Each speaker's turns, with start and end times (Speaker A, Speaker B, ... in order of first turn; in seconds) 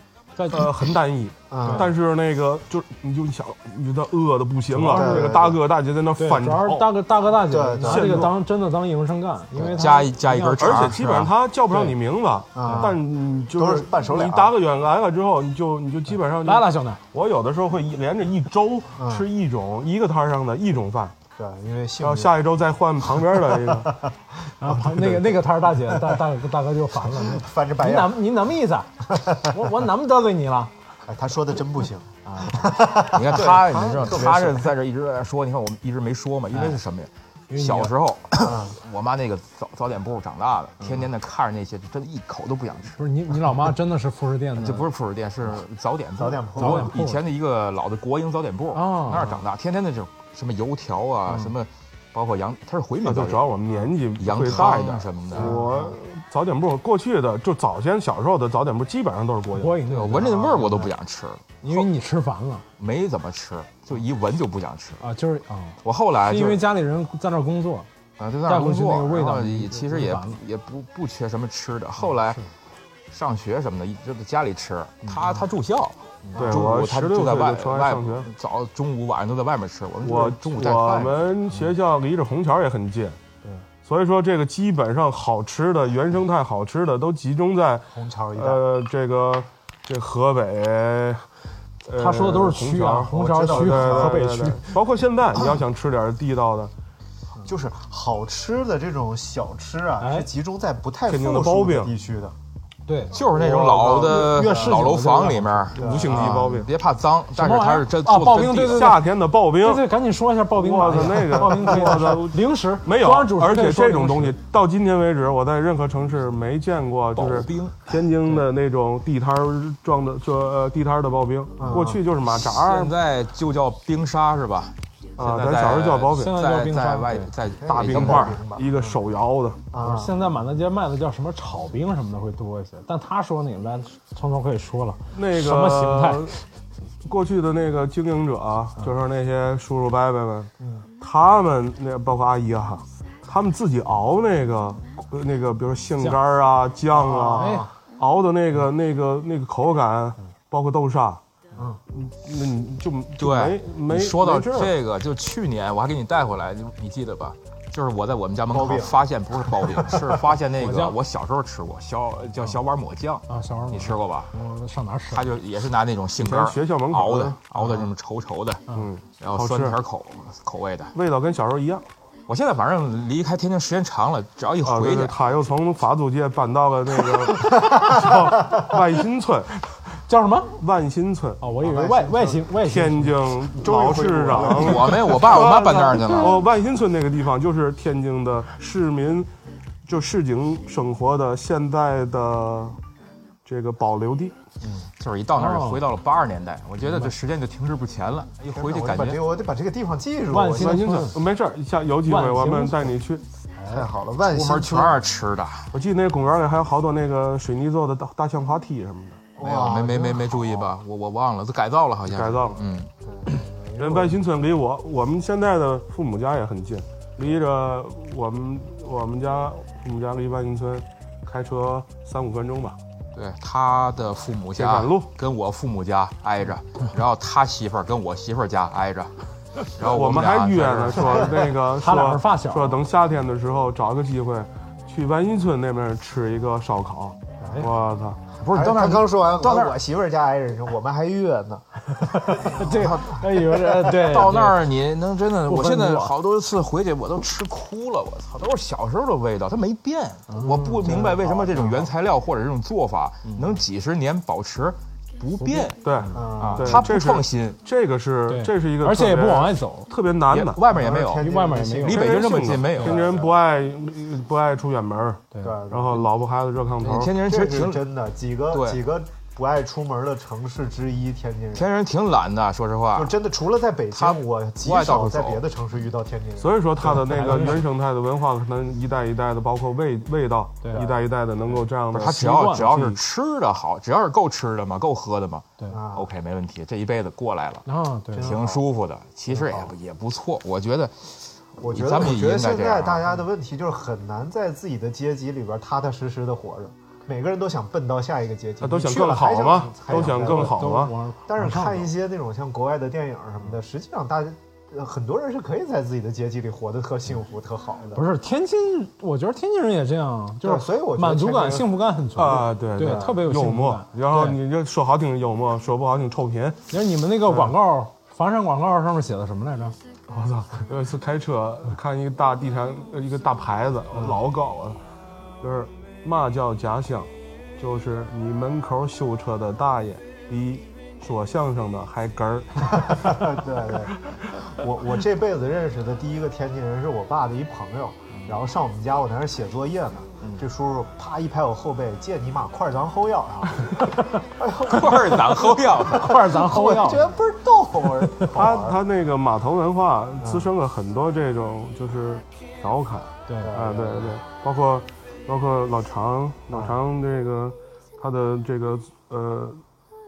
Speaker A: 0.4-0.7, 4.7-5.3, 6.2-10.9, 11.7-11.9, 12.6-12.9, 16.4-17.0, 24.6-30.7, 32.2-32.8, 37.5-37.9, 43.0-44.9, 46.6-47.2, 48.7-49.4, 59.5-60.8, 61.6-62.6, 65.0-67.9, 68.5-70.4, 91.9-94.8, 100.0-100.3, 102.9-105.8, 107.3-109.0, 109.6-114.3, 126.1-127.3, 129.8-136.4, 147.0-147.7, 160.6-161.0, 163.3-165.3, 180.1-180.5, 181.4-183.1, 195.3-195.8, 196.9-197.1, 200.3-201.2, 202.1-202.9, 231.8-232.8, 242.0-244.7, 245.4-246.1, 250.3-250.8, 255.4-256.2, 258.3-259.9, 261.2-263.0, 276.9-277.6, 282.0-282.8, 287.6-288.3, 300.0-301.9, 307.9-314.4, 316.7-319.8, 346.0-347.0
Speaker B: 0.5-6.9, 7.8-8.3, 10.6-21.1, 22.0-23.9, 53.0-59.8, 76.4-78.3, 80.0-83.2, 83.8-91.2, 91.8-96.7, 101.1-101.9, 103.4-104.0, 105.8-106.7, 108.6-109.9, 110.5-122.9, 125.2-126.3, 127.7-129.6, 135.1-136.4, 137.0-151.2, 151.9-154.7, 166.2-167.4, 168.7-169.8, 170.9-171.8, 174.6-179.6, 180.6-181.4, 182.6-189.3, 189.9-192.8, 193.4-194.3, 200.6-203.2, 205.7-209.3, 212.1-212.6, 213.8-222.8, 224.6-225.1, 229.8-238.2, 255.8-260.6, 261.9-267.1, 276.4-283.0, 298.6-300.9, 312.1-316.6, 317.3-317.5, 320.1-324.8, 325.4-333.3, 348.3-359.6
Speaker C: 1.5-1.9, 4.9-5.6, 7.3-8.3, 12.5-14.5, 19.0-19.3, 21.4-22.4, 23.5-23.9, 25.9-26.2, 27.1-28.4, 29.1-29.6, 31.1-34.7, 38.4-38.8, 46.2-46.9, 55.3-56.0, 87.9-88.6, 93.1-94.2, 97.4-102.3, 103.3-104.9, 105.7-106.4, 121.6-122.0, 127.6-129.0, 129.7-130.2, 140.6-140.9, 147.2-147.7, 158.5-160.3, 167.6-167.8, 177.6-177.9, 181.6-182.5, 183.5-185.2, 194.6-194.9, 198.5-201.0, 203.6-205.0, 209.4-210.8, 213.0-214.2, 231.2-231.4, 237.4-237.7, 238.5-243.4, 250.8-251.9, 256.1-256.9, 260.7-262.1, 263.0-263.3, 265.4-266.1, 267.2-271.7, 272.9-277.5, 285.7-286.1, 288.1-288.7, 289.3-289.7, 291.6-300.7, 301.3-308.0, 310.4-311.8, 312.4-313.2, 323.9-324.2, 332.7-348.8, 350.2-350.5, 353.4-354.1, 356.5-356.8
Speaker D: 9.6-11.3, 33.1-43.0, 44.5-53.6, 54.2-55.5, 59.8-61.9, 62.8-65.0, 65.8-66.7, 68.2-72.4, 73.1-81.2, 103.1-109.0, 117.2-118.0, 122.2-128.4, 153.2-164.3, 165.1-168.6, 169.2-170.9, 172.3-175.4, 184.4-186.4, 195.0-199.2, 204.2-205.7, 209.4-213.4, 223.1-229.1, 229.7-231.5, 238.4-239.8, 242.6-255.8, 256.4-257.6, 260.3-263.2, 266.8-267.8, 268.5-268.8, 271.5-273.1, 273.9-275.4, 281.9-293.2, 338.1-338.4, 344.6-346.3